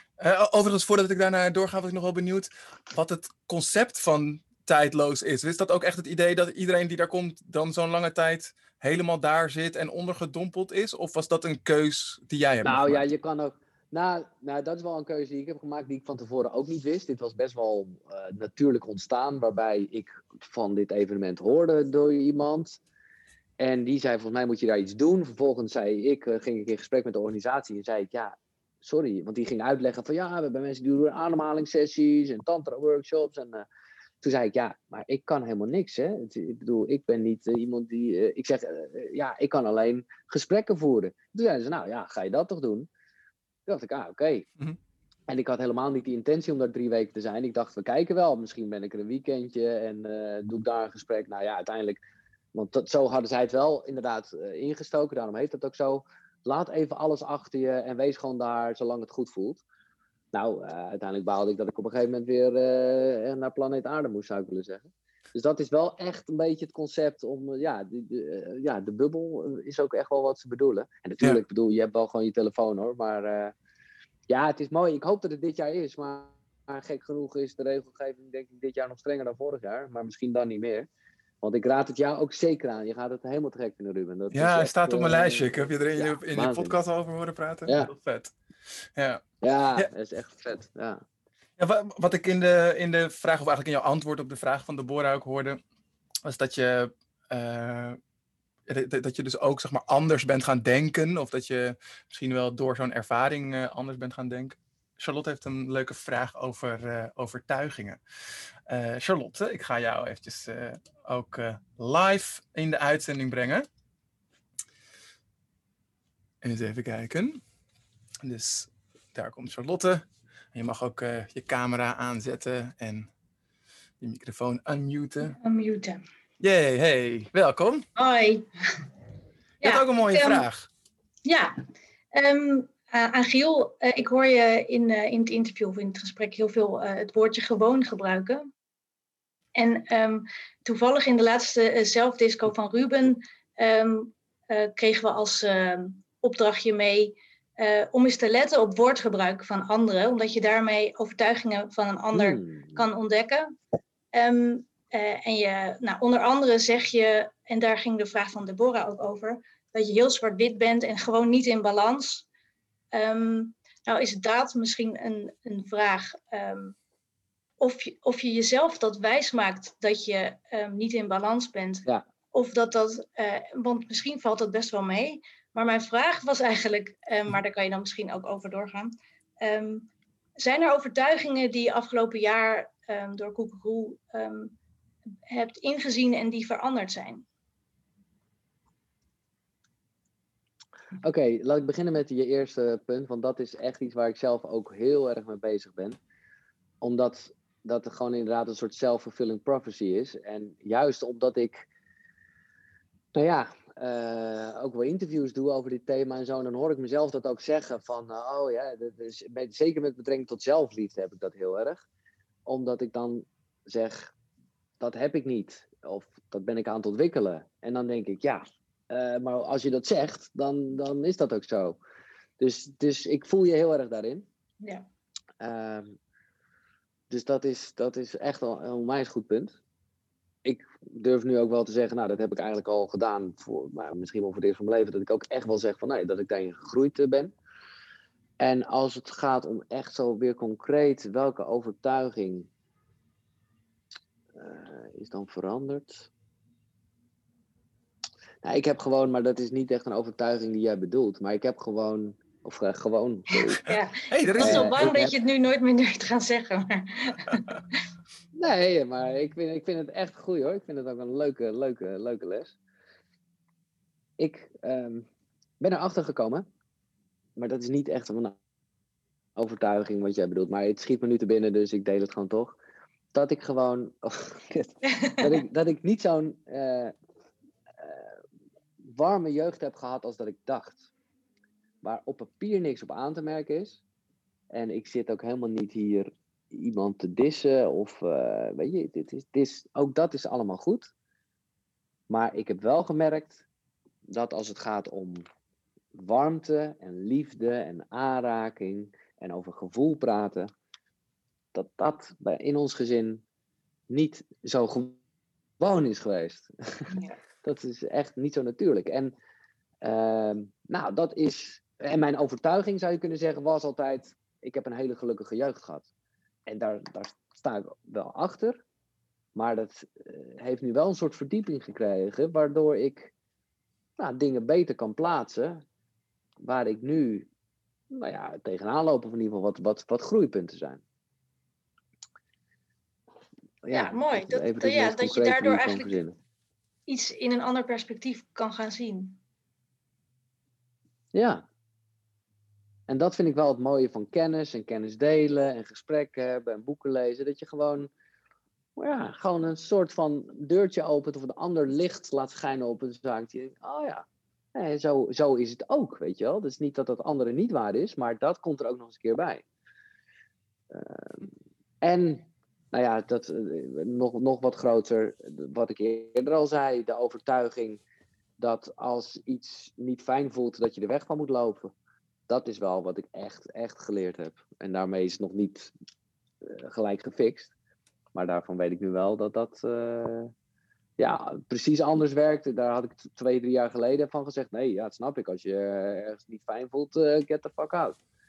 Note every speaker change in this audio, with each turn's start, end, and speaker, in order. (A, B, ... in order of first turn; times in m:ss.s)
0:00.2-0:13.0 A
0:12.6-0:22.8 B
0:23.6-0:33.7 B
0:34.2-0:42.9 B
0:43.7-0:44.5 B
0:45.3-0:52.0 B
0:52.5-0:59.6 B
1:00.3-1:13.5 B
1:14.3-1:20.9 B
1:21.4-1:26.8 B
1:24.3-1:28.4 A
1:27.7-1:27.9 B
1:29.0-1:29.2 A
1:29.4-1:31.0 B
1:31.6-1:35.6 A
1:36.2-1:38.0 A
1:38.7-1:48.0 A
1:48.7-1:53.7 A
1:56.4-1:57.4 A
1:58.2-2:03.1 A
2:04.0-2:05.4 A
2:05.2-2:06.0 C
2:06.4-2:07.9 A
2:08.0-2:08.8 C
2:09.6-2:10.4 C
2:09.6-2:10.7 A
2:11.3-2:18.5 C
2:19.6-2:33.6 C
2:32.1-2:32.8 B
2:34.1-2:42.3 C
2:42.9-2:46.8 C
2:47.6-2:59.9 C
3:00.4-3:04.5 C
3:05.3-3:07.2 C
3:11.0-3:16.0 B
3:16.8-3:21.7 B
3:23.1-3:31.8 B
3:32.5-3:34.1 B
3:34.8-3:41.8 B
3:42.4-3:44.3 B
3:45.4-3:46.0 B
3:47.1-3:49.6 B
3:50.4-3:57.3 B
3:58.4-4:02.5 B
4:04.4-4:06.1 B
4:08.4-4:13.6 B
4:13.6-4:17.6 C
4:14.1-4:14.9 A
4:14.4-4:15.1 B
4:18.4-4:22.5 B
4:24.2-4:25.1 B
4:25.6-4:26.5 B
4:27.4-4:28.4 B
4:29.4-4:32.6 B
4:33.1-4:36.9 B
4:37.8-4:38.1 B
4:38.8-4:40.9 B
4:41.8-4:43.8 B
4:44.5-4:50.9 B
4:52.1-4:53.4 B
4:54.1-4:55.2 B
4:56.0-5:00.5 B
5:01.5-5:03.2 B
5:03.9-5:05.0 B
5:05.6-5:09.1 B
5:09.8-5:15.9 B
5:16.5-5:18.6 B
5:19.4-5:23.1 B
5:24.0-5:25.6 B
5:26.4-5:27.3 B
5:27.9-5:30.8 B
5:33.6-5:36.2 B
5:33.7-5:36.0 C
5:36.9-5:39.2 C
5:41.1-5:41.4 B
5:42.9-5:47.9 B
5:48.8-5:59.4 B
6:00.7-6:01.3 B
6:01.8-6:07.8 B
6:08.4-6:11.7 B
6:12.3-6:15.7 B
6:16.4-6:17.5 B
6:18.2-6:20.3 B
6:21.0-6:28.0 B